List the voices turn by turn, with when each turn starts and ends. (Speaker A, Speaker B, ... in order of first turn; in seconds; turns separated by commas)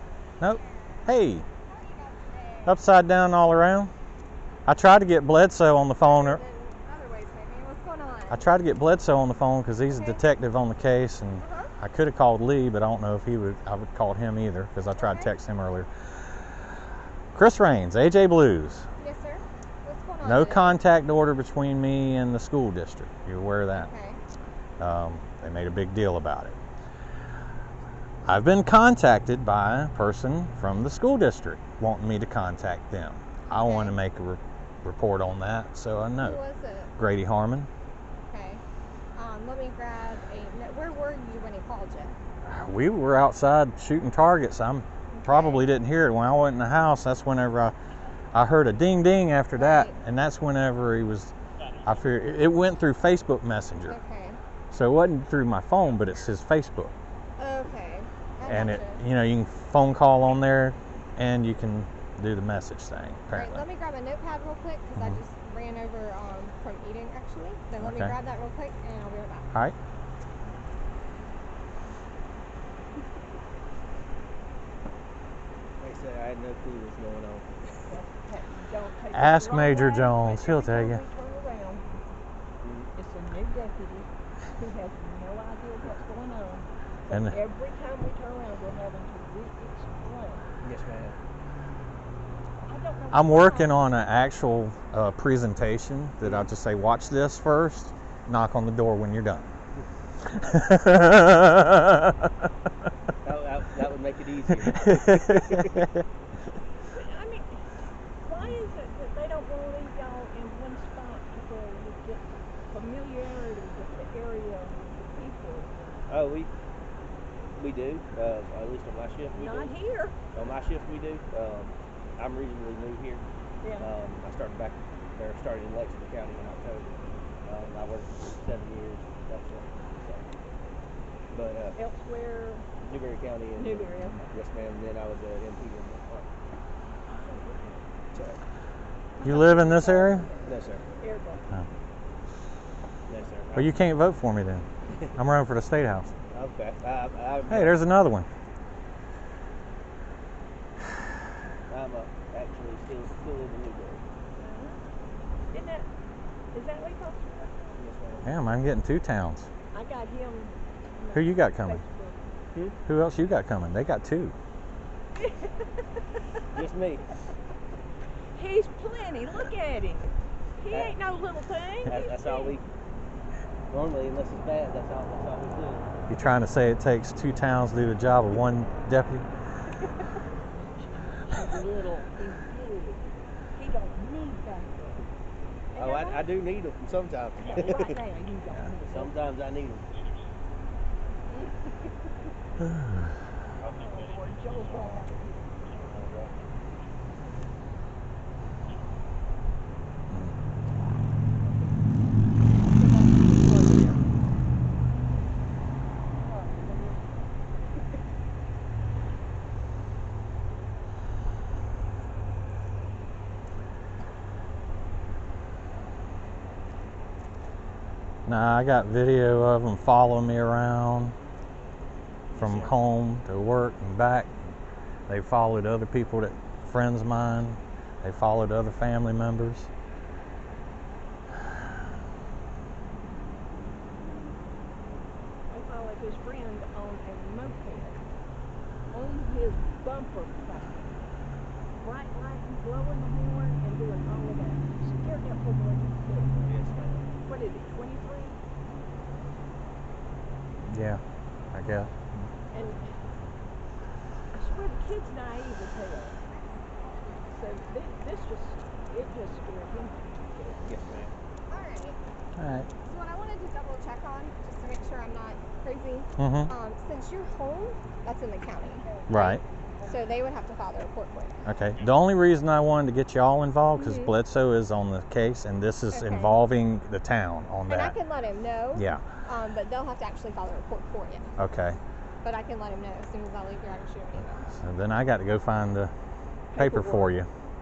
Speaker A: 0.4-1.4, Speaker B: 0.4-1.1, Speaker B: 1.6-2.8, Speaker A: 2.6-3.9, Speaker A: 4.7-6.4, Speaker B: 6.0-8.4, Speaker A: 8.3-15.9, Speaker B: 9.9-10.2, Speaker B: 11.4-11.7, Speaker B: 14.9-15.3, Speaker A: 17.3-18.9, Speaker B: 19.0-20.8, Speaker A: 20.2-23.9, Speaker B: 23.7-24.2, Speaker A: 24.8-26.6, Speaker A: 28.2-36.4, Speaker B: 33.5-34.0, Speaker B: 36.2-36.9, Speaker A: 37.0-37.7, Speaker B: 38.3-38.6, Speaker B: 39.1-42.1, Speaker A: 42.4-47.7, Speaker B: 45.1-45.7, Speaker A: 48.3-51.3, Speaker B: 49.5-50.0, Speaker A: 51.8-54.0, Speaker B: 53.9-54.4, Speaker A: 54.7-56.9, Speaker B: 57.4-59.0, Speaker A: 58.4-63.6, Speaker B: 63.3-69.5, Speaker A: 67.8-68.2, Speaker C: 75.8-77.5, Speaker D: 77.8-81.8, Speaker A: 79.1-81.0, Speaker C: 82.6-82.9, Speaker D: 82.9-90.5, Speaker A: 87.1-87.4, Speaker C: 90.6-91.2, Speaker D: 92.6-93.9, Speaker A: 93.1-99.5, Speaker A: 100.2-102.3, Speaker C: 103.2-105.7, Speaker A: 105.6-105.8, Speaker D: 106.9-107.6, Speaker D: 108.2-115.9, Speaker C: 116.1-116.5, Speaker C: 117.5-119.7, Speaker D: 119.3-120.2, Speaker C: 120.3-123.2, Speaker D: 123.6-123.9, Speaker C: 123.8-126.9, Speaker C: 127.4-130.2, Speaker C: 131.3-131.8, Speaker D: 131.7-132.6, Speaker C: 132.8-136.3, Speaker D: 133.5-134.3, Speaker D: 137.1-137.9, Speaker D: 139.2-141.5, Speaker A: 139.2-140.3, Speaker C: 140.4-140.8, Speaker C: 143.1-143.7, Speaker A: 143.5-146.1, Speaker C: 146.3-147.8, Speaker A: 147.5-148.3, Speaker C: 151.7-154.0, Speaker D: 154.4-154.8, Speaker D: 155.5-155.9, Speaker D: 156.5-157.8, Speaker C: 157.8-158.3, Speaker A: 158.2-159.5, Speaker D: 159.7-162.2, Speaker A: 161.1-161.8, Speaker A: 162.8-164.3, Speaker D: 165.2-165.8, Speaker C: 166.5-167.0, Speaker D: 168.3-170.1, Speaker D: 170.6-172.6, Speaker C: 170.7-170.9, Speaker C: 171.8-172.6, Speaker C: 173.7-175.9, Speaker A: 176.1-179.2, Speaker D: 180.8-185.1, Speaker D: 185.7-186.3, Speaker C: 185.8-188.0, Speaker D: 187.4-189.1, Speaker C: 188.9-189.9, Speaker D: 191.3-191.9, Speaker D: 193.6-195.8, Speaker C: 195.8-196.3, Speaker D: 201.4-201.8, Speaker D: 202.6-204.0, Speaker D: 206.2-207.0, Speaker A: 218.2-221.1, Speaker C: 222.3-222.7, Speaker A: 222.3-224.3, Speaker A: 225.1-229.7, Speaker D: 235.5-238.0, Speaker D: 238.9-240.9, Speaker D: 241.8-246.5, Speaker C: 246.4-247.1, Speaker D: 247.2-248.4, Speaker A: 250.7-251.0, Speaker A: 251.5-251.9, Speaker D: 252.5-252.9, Speaker D: 254.3-256.2, Speaker B: 256.8-257.2, Speaker D: 257.3-260.7, Speaker C: 260.6-261.1, Speaker B: 261.5-262.0, Speaker A: 262.4-262.7, Speaker B: 262.8-271.5, Speaker A: 266.2-266.5, Speaker A: 269.1-269.4, Speaker A: 271.4-277.9, Speaker D: 273.8-274.1, Speaker B: 275.9-276.4, Speaker B: 277.7-281.3, Speaker A: 278.7-279.0, Speaker A: 281.4-281.8, Speaker B: 282.2-284.5, Speaker A: 284.5-285.9, Speaker D: 286.5-287.1, Speaker A: 286.6-287.3